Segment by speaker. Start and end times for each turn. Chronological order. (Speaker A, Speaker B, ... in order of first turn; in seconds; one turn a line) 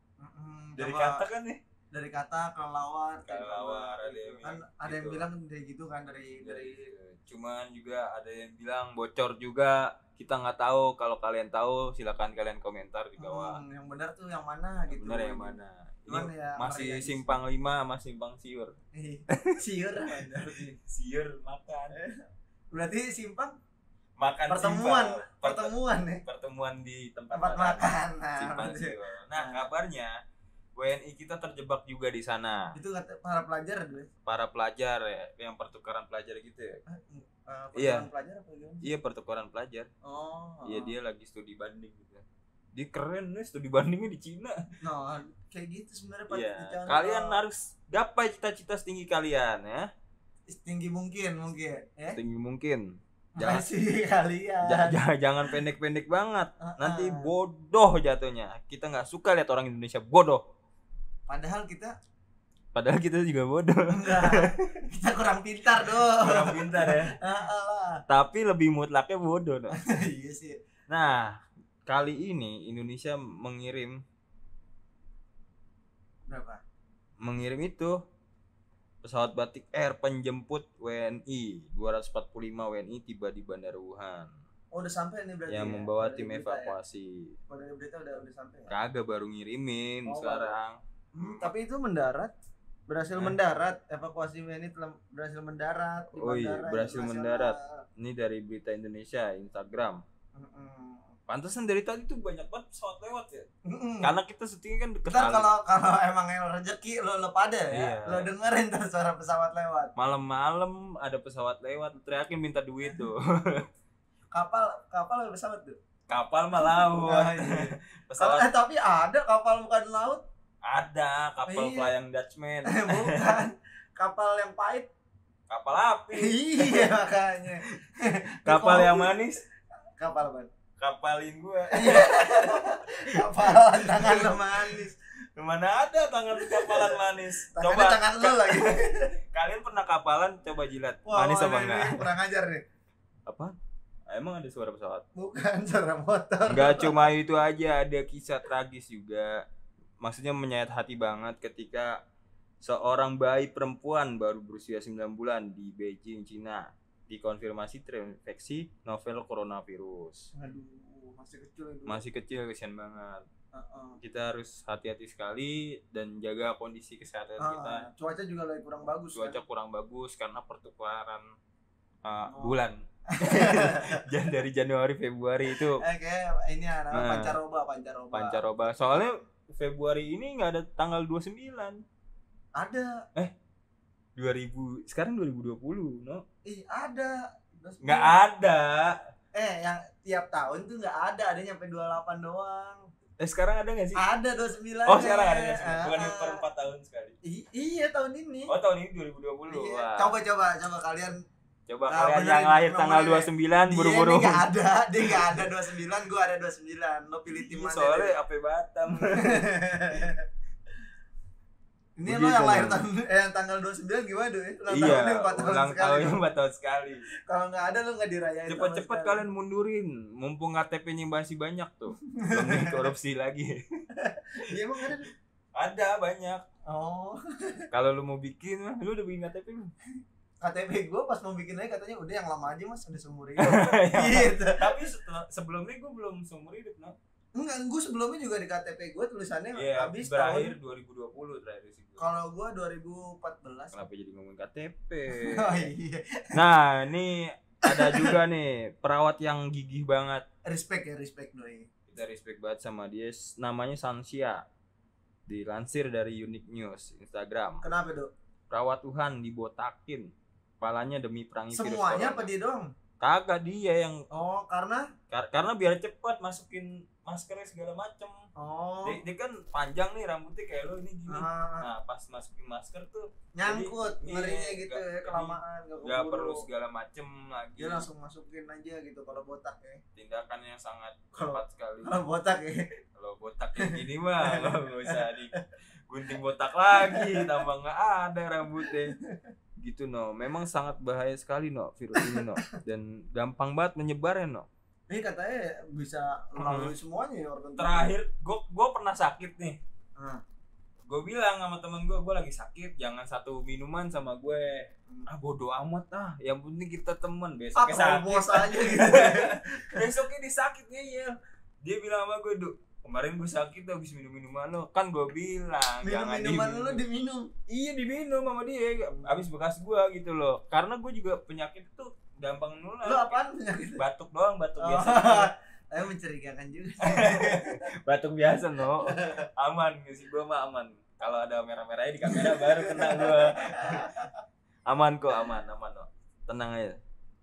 Speaker A: 0.2-1.2
Speaker B: 0.8-1.6
Speaker A: 1.9-6.9
Speaker B: 3.2-5.3
Speaker B: 6.4-13.6
Speaker A: 13.2-17.4
Speaker B: 14.9-18.7
Speaker A: 18.9-20.8
Speaker B: 19.3-19.6
Speaker B: 20.8-22.0
Speaker A: 21.9-22.2
Speaker A: 22.7-23.6
Speaker B: 24.2-30.1
Speaker A: 24.5-26.2
Speaker A: 27.3-29.7
Speaker B: 30.8-32.8
Speaker A: 32.7-34.1
Speaker B: 34.3-36.8
Speaker A: 36.9-38.9
Speaker B: 37.8-38.1
Speaker B: 38.8-39.9
Speaker A: 40.0-41.0
Speaker B: 40.6-44.6
Speaker A: 44.8-47.5
Speaker B: 46.3-49.9
Speaker A: 50.5-52.2
Speaker B: 52.1-53.7
Speaker A: 53.4-55.6
Speaker B: 54.6-60.4
Speaker A: 56.6-57.3
Speaker A: 61.3-61.9
Speaker B: 62.7-64.6
Speaker A: 63.9-68.0
Speaker B: 65.8-67.2
Speaker B: 68.1-69.7
Speaker A: 69.7-70.6
Speaker B: 70.9-74.0
Speaker A: 76.3-76.6
Speaker B: 77.2-78.0
Speaker B: 79.0-84.3
Speaker A: 84.7-86.8
Speaker B: 85.5-87.3
Speaker A: 87.5-88.7
Speaker B: 88.7-91.5
Speaker A: 90.1-90.6
Speaker A: 91.2-92.3
Speaker A: 92.9-97.8
Speaker B: 96.2-100.0
Speaker A: 100.4-101.2
Speaker B: 101.3-103.5
Speaker A: 103.7-104.2
Speaker B: 104.0-105.5
Speaker A: 105.1-109.9
Speaker B: 107.7-108.3
Speaker B: 110.0-113.7
Speaker A: 114.3-115.8
Speaker B: 116.1-118.5
Speaker A: 116.8-120.2
Speaker B: 120.6-123.4
Speaker A: 121.5-122.0
Speaker A: 122.7-124.9
Speaker B: 125.5-127.1
Speaker A: 126.2-129.2
Speaker B: 128.4-129.4
Speaker A: 130.0-130.5
Speaker B: 130.8-142.1
Speaker A: 131.7-134.9
Speaker A: 136.4-139.1
Speaker A: 141.1-142.6
Speaker B: 143.3-143.6
Speaker B: 144.1-145.0
Speaker A: 145.2-147.1
Speaker B: 146.5-149.4
Speaker B: 150.0-151.9
Speaker B: 152.6-160.3
Speaker A: 160.3-162.0
Speaker B: 161.9-163.2
Speaker A: 163.5-164.0
Speaker B: 164.0-167.9
Speaker A: 167.4-169.4
Speaker B: 169.1-171.3
Speaker B: 172.1-175.8
Speaker A: 172.3-172.6
Speaker A: 173.1-174.1
Speaker A: 175.5-178.4
Speaker B: 176.9-177.4
Speaker B: 178.1-181.8
Speaker A: 182.6-182.9
Speaker B: 184.2-186.2
Speaker A: 186.4-188.2
Speaker B: 187.8-189.0
Speaker A: 189.3-192.8
Speaker B: 193.2-194.0
Speaker A: 194.0-196.4
Speaker B: 194.9-197.2
Speaker A: 197.2-198.5
Speaker B: 198.5-200.2
Speaker A: 199.5-201.2
Speaker B: 201.7-204.5
Speaker A: 201.9-208.2
Speaker B: 205.1-205.4
Speaker B: 207.3-209.5
Speaker A: 209.2-210.2
Speaker A: 212.0-216.2
Speaker B: 212.1-212.8
Speaker B: 214.7-217.0
Speaker A: 217.3-219.2
Speaker B: 218.5-223.6
Speaker A: 222.1-222.9
Speaker A: 224.0-225.1
Speaker B: 224.5-224.9
Speaker B: 225.6-226.4
Speaker A: 226.7-227.7
Speaker B: 227.7-229.7
Speaker A: 230.4-234.8
Speaker B: 233.4-237.0
Speaker A: 237.3-240.6
Speaker B: 239.5-242.0
Speaker A: 242.0-243.8
Speaker B: 243.7-245.7
Speaker A: 245.1-246.4
Speaker B: 246.3-250.2
Speaker A: 247.7-248.2
Speaker A: 250.5-251.7
Speaker B: 251.9-254.4
Speaker B: 255.3-257.6
Speaker A: 257.6-258.1
Speaker B: 258.5-262.3
Speaker A: 261.5-262.7
Speaker B: 263.0-264.1
Speaker A: 264.1-264.9
Speaker B: 265.1-268.2
Speaker A: 268.4-269.0
Speaker B: 268.8-277.9
Speaker A: 271.1-271.7
Speaker A: 273.4-276.5
Speaker A: 277.6-279.8
Speaker B: 280.0-282.0
Speaker A: 281.1-282.7
Speaker B: 283.0-285.3
Speaker A: 283.6-285.1
Speaker B: 285.9-288.9
Speaker A: 286.8-287.4
Speaker A: 288.6-289.3
Speaker B: 289.6-294.5
Speaker A: 291.9-292.5
Speaker A: 294.9-298.0
Speaker B: 296.4-296.8
Speaker B: 297.6-299.6
Speaker A: 300.0-300.2
Speaker B: 300.9-316.8
Speaker A: 307.6-309.9
Speaker A: 315.8-317.3
Speaker B: 317.5-323.2
Speaker A: 319.0-319.2
Speaker A: 322.8-323.8
Speaker B: 323.8-325.3
Speaker A: 324.6-327.5
Speaker B: 326.8-334.0
Speaker A: 328.9-329.2
Speaker A: 332.1-334.1
Speaker B: 334.7-336.8